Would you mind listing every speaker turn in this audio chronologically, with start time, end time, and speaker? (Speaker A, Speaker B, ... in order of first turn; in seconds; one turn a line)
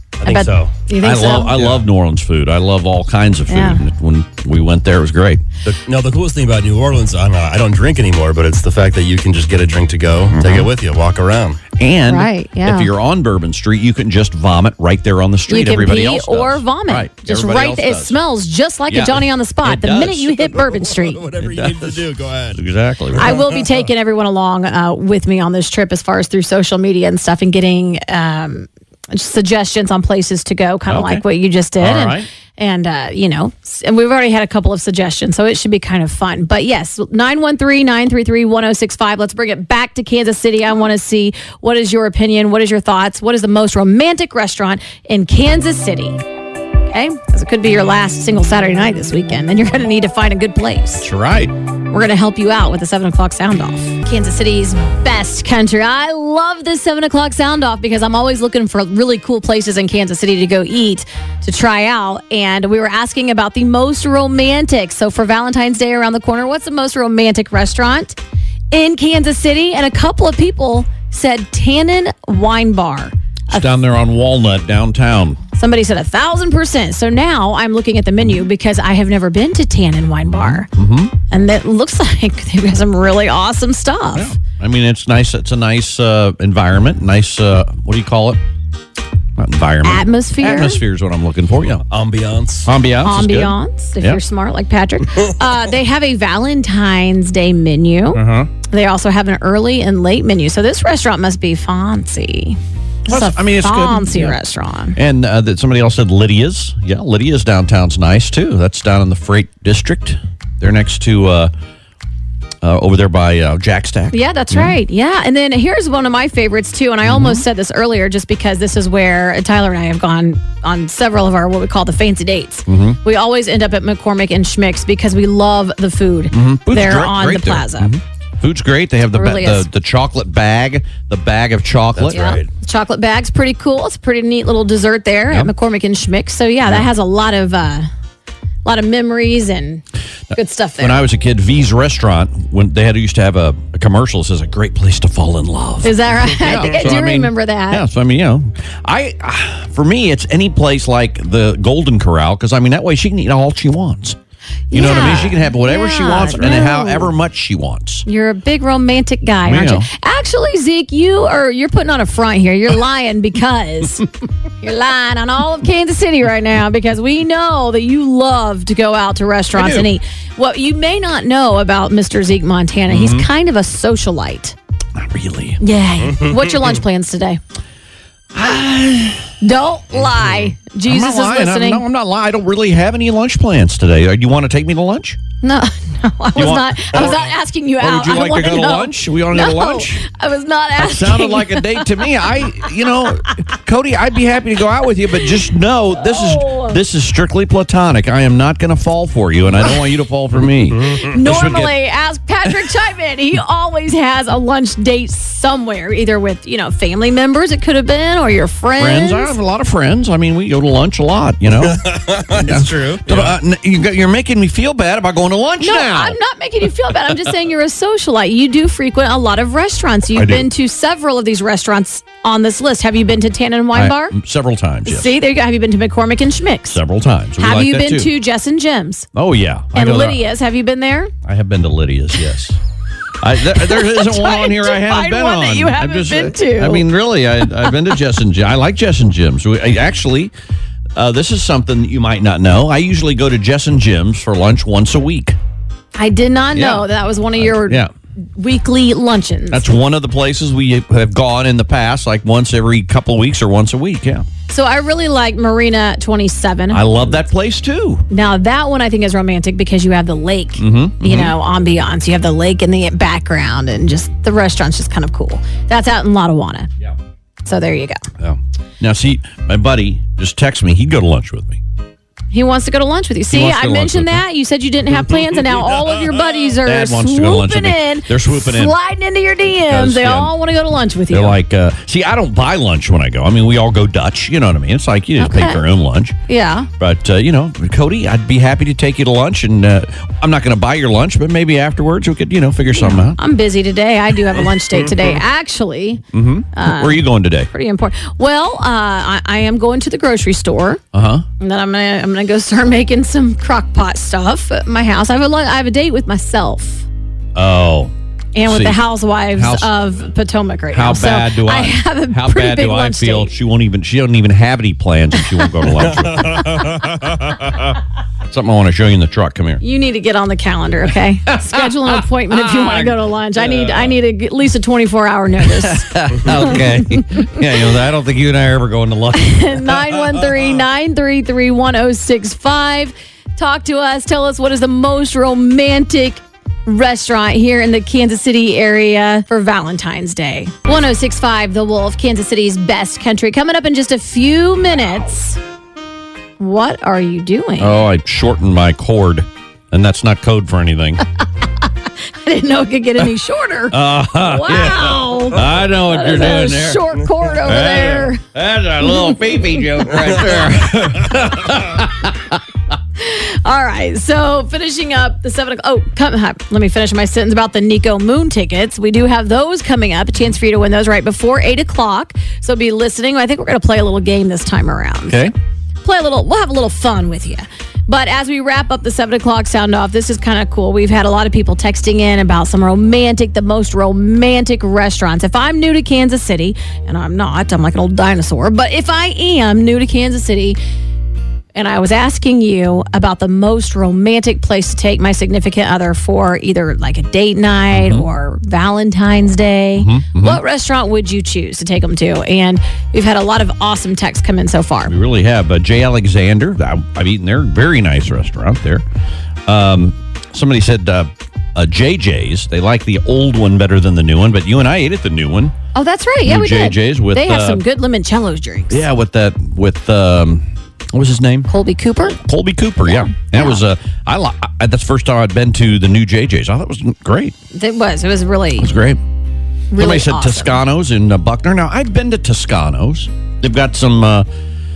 Speaker A: 0.2-0.7
Speaker B: 0.2-1.5
Speaker C: 1.0-5.4
Speaker A: 1.5-1.8
Speaker B: 3.5-3.8
Speaker A: 5.6-11.6
Speaker C: 10.3-10.7
Speaker C: 11.8-18.2
Speaker B: 12.1-12.9
Speaker B: 15.5-21.2
Speaker C: 18.9-20.6
Speaker A: 20.6-22.6
Speaker C: 21.4-23.4
Speaker A: 23.1-23.7
Speaker B: 23.2-46.2
Speaker C: 30.9-31.2
Speaker C: 31.8-32.3
Speaker B: 46.9-51.1
Speaker C: 51.0-51.5
Speaker B: 51.9-68.2
Speaker B: 68.7-73.7
Speaker C: 73.5-75.4
Speaker B: 75.5-80.7
Speaker C: 80.2-81.1
Speaker B: 81.3-84.3
Speaker C: 84.1-88.4
Speaker C: 89.4-91.8
Speaker B: 89.8-90.8
Speaker A: 91.9-92.7
Speaker C: 92.7-94.2
Speaker B: 93.0-105.0
Speaker C: 98.1-98.5
Speaker C: 103.1-104.4
Speaker C: 104.9-111.5
Speaker C: 112.6-114.8
Speaker B: 114.1-127.9
Speaker C: 117.0-117.4
Speaker C: 122.7-123.0
Speaker C: 126.3-132.4
Speaker B: 129.1-129.7
Speaker A: 131.9-132.5
Speaker B: 132.1-137.9
Speaker B: 138.6-141.1
Speaker C: 140.3-154.2
Speaker B: 145.8-147.8
Speaker B: 154.7-157.1
Speaker C: 154.7-158.1
Speaker B: 158.1-164.1
Speaker C: 159.4-159.9
Speaker B: 164.6-174.6
Speaker C: 169.5-169.9
Speaker C: 172.9-173.3
Speaker C: 174.9-175.6
Speaker B: 175.6-177.4
Speaker A: 176.0-176.7
Speaker C: 178.3-179.3
Speaker B: 179.4-181.8
Speaker C: 180.8-185.2
Speaker B: 185.4-192.0
Speaker C: 186.3-190.0
Speaker C: 190.8-201.7
Speaker B: 195.9-196.8
Speaker B: 201.0-209.3
Speaker C: 208.8-216.2
Speaker A: 211.6-213.3
Speaker B: 215.6-224.2
Speaker C: 220.1-220.5
Speaker C: 223.7-225.1
Speaker B: 224.8-226.8
Speaker C: 226.7-228.1
Speaker B: 227.4-229.1
Speaker C: 229.1-230.2
Speaker B: 229.7-231.1
Speaker C: 231.2-232.6
Speaker C: 233.2-240.3
Speaker B: 233.5-236.9
Speaker C: 240.9-245.4
Speaker B: 245.9-247.8
Speaker C: 246.5-247.9
Speaker B: 248.4-249.7
Speaker C: 249.5-254.3
Speaker B: 254.5-257.2
Speaker C: 256.7-258.0
Speaker B: 258.1-266.7
Speaker C: 260.6-261.3
Speaker B: 267.4-268.0
Speaker C: 268.2-271.6
Speaker B: 272.3-281.4
Speaker C: 273.3-274.2
Speaker C: 276.6-278.8
Speaker C: 279.6-280.3
Speaker C: 281.1-286.1
Speaker B: 285.2-285.6
Speaker B: 286.3-286.7
Speaker C: 286.8-293.2
Speaker B: 292.8-296.0
Speaker C: 296.1-297.5
Speaker B: 296.5-300.8
Speaker C: 300.9-301.2
Speaker B: 301.4-306.8
Speaker C: 307.3-307.9
Speaker B: 308.3-313.3
Speaker C: 308.4-309.7
Speaker C: 310.7-316.7
Speaker A: 316.0-316.9
Speaker C: 318.3-319.6
Speaker B: 319.6-327.0
Speaker C: 321.3-323.9
Speaker C: 325.4-330.1
Speaker B: 329.1-345.4
Speaker B: 346.4-347.8
Speaker C: 347.6-351.0
Speaker B: 352.2-358.2
Speaker C: 353.7-362.4
Speaker B: 358.9-359.9
Speaker B: 363.0-375.3
Speaker C: 375.1-375.3
Speaker B: 375.8-390.6
Speaker B: 391.5-404.9
Speaker C: 397.7-398.1
Speaker C: 399.8-400.4
Speaker C: 404.9-408.8
Speaker C: 409.5-415.5
Speaker B: 415.7-418.8
Speaker C: 416.2-417.6
Speaker C: 418.7-421.5
Speaker B: 421.5-422.2
Speaker C: 422.1-427.3
Speaker B: 422.9-423.6
Speaker B: 427.5-428.7
Speaker C: 428.6-429.0
Speaker B: 429.7-430.6
Speaker C: 429.8-434.3